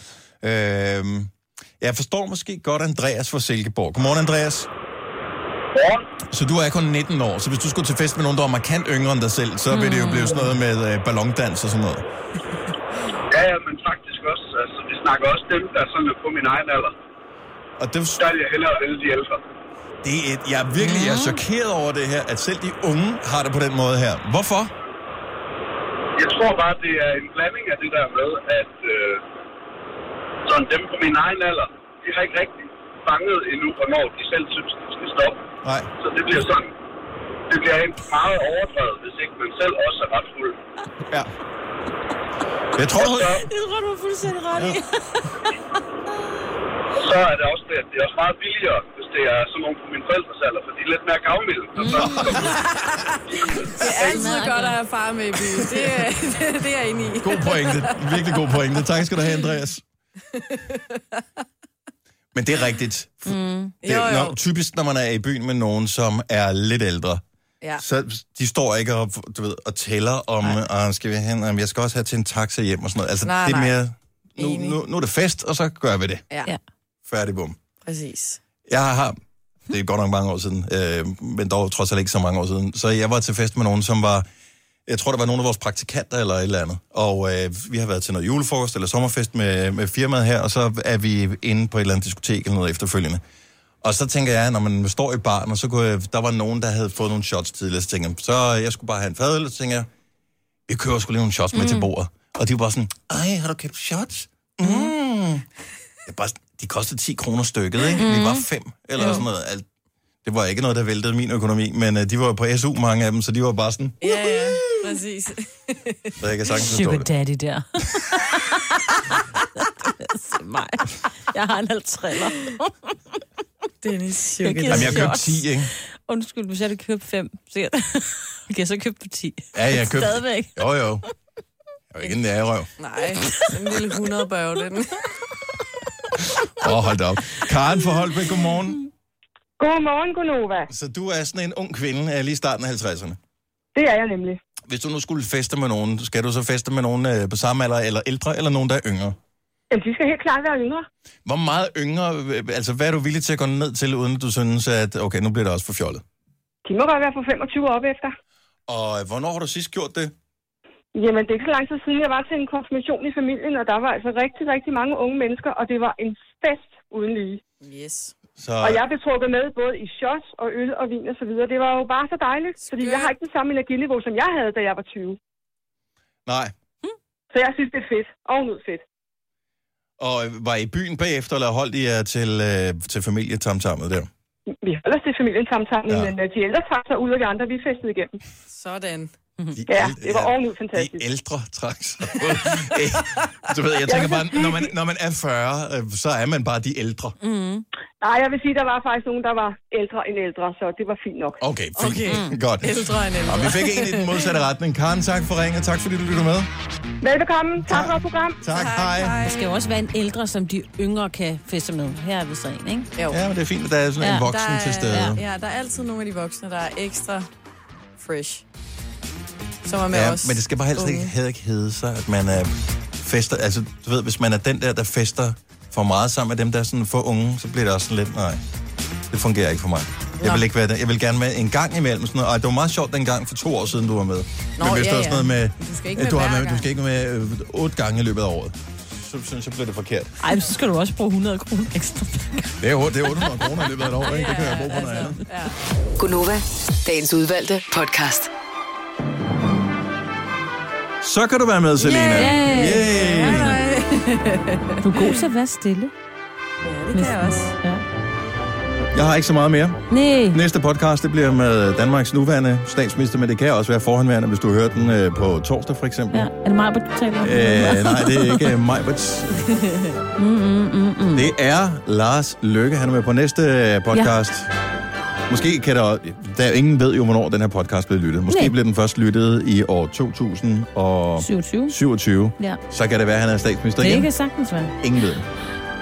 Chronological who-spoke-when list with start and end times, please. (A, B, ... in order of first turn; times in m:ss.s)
0:00.4-0:04.7 A
0:05.7-0:06.0 B
0:06.3-0:12.0 A
0:09.7-0:10.5 C
0:13.3-0:16.9 B
0:17.8-0:18.2 A
0:18.2-0:19.4 B
0:20.0-0:24.7 A
0:20.8-0:21.4 C
0:26.2-0:29.2 B
0:30.4-0:35.4 B
0:35.6-0:35.9 A
0:36.0-0:36.7 B
0:37.5-0:40.6 B
0:42.8-0:43.4 A
0:43.0-0:43.4 B
0:43.2-0:45.5 C
0:44.5-0:44.8 A
0:46.9-0:52.6 B
0:51.8-0:52.5 C
0:51.9-0:52.5 A
0:52.4-0:58.4 D
0:53.3-0:54.3 B
0:53.8-0:54.8 C
0:57.2-0:59.8 A
1:00.3-1:01.2 D
1:02.3-1:07.2 A
1:03.2-1:03.7 C
1:03.8-1:04.4 D
1:07.8-1:16.2 A
1:13.2-1:13.8 D
1:14.4-1:14.8 D
1:17.1-1:17.6 A
1:17.8-1:18.4 D
1:18.6-1:19.2 A
1:19.7-1:24.2 A
1:24.9-1:33.2 A
1:33.8-1:39.9 A
1:40.7-1:45.4 A
1:41.5-1:41.9 C
1:46.0-1:49.6 A
1:48.0-1:48.4 C
1:49.0-1:49.2 C
1:49.0-1:49.2 D
1:50.2-1:54.4 A
1:54.0-1:56.1 D
1:56.2-1:57.1 A
1:56.6-2:03.0 C
2:03.8-2:05.2 D
2:04.4-2:10.6 C
2:04.7-2:05.7 A
2:09.5-2:11.0 A
2:11.9-2:12.7 A
2:12.8-2:15.0 D
2:16.1-2:18.8 A
2:19.6-2:20.7 E
2:20.7-2:23.2 A
2:23.7-2:24.4 E
2:24.7-2:29.2 A
2:29.7-2:30.9 E
2:31.2-2:36.0 A
2:36.6-2:38.1 E
2:38.7-2:40.1 A
2:40.9-2:47.4 E
2:47.6-2:48.1 D
2:48.4-2:48.8 A
2:48.6-2:55.2 E
2:52.6-2:53.1 D
2:56.2-2:56.5 A
2:57.3-2:58.8 E
3:00.0-3:04.1 A
3:04.6-3:08.2 E
3:05.9-3:06.1 A
3:08.5-3:09.1 D
3:09.5-3:17.1 A
3:09.7-3:11.0 E
3:13.9-3:14.7 E
3:17.2-3:17.6 C
3:18.0-3:21.4 E
3:21.4-3:26.5 A
3:21.7-3:24.2 D
3:22.1-3:22.4 C
3:27.0-3:28.4 E
3:27.7-3:29.2 A
3:28.5-3:29.6 D
3:29.2-3:32.9 C
3:33.0-3:33.2 D
3:33.1-3:35.2 A
3:34.0-3:34.3 C
3:34.2-3:37.3 D
3:34.9-3:35.2 C
3:38.0-3:38.4 D
3:39.6-3:41.1 D
3:39.9-3:48.4 A
3:49.1-4:00.2 A
3:54.6-3:56.7 D
4:00.2-4:02.6 C
4:02.6-4:05.2 A
4:03.2-4:03.6 C
4:04.0-4:05.5 D
4:06.0-4:08.3 F
4:11.0-4:13.6 A
4:11.8-4:15.2 D
4:12.1-4:13.5 C
4:14.8-4:15.9 C
4:16.6-4:17.6 D
4:16.9-4:17.8 C
4:18.9-4:26.3 A
4:19.9-4:20.4 C
4:26.1-4:28.4 C
4:27.2-4:29.5 A
4:30.2-4:31.3 C
4:31.1-4:34.5 A
4:35.3-4:44.1 A
4:41.2-4:41.7 C
4:43.8-4:44.7 C
4:44.8-4:45.2 A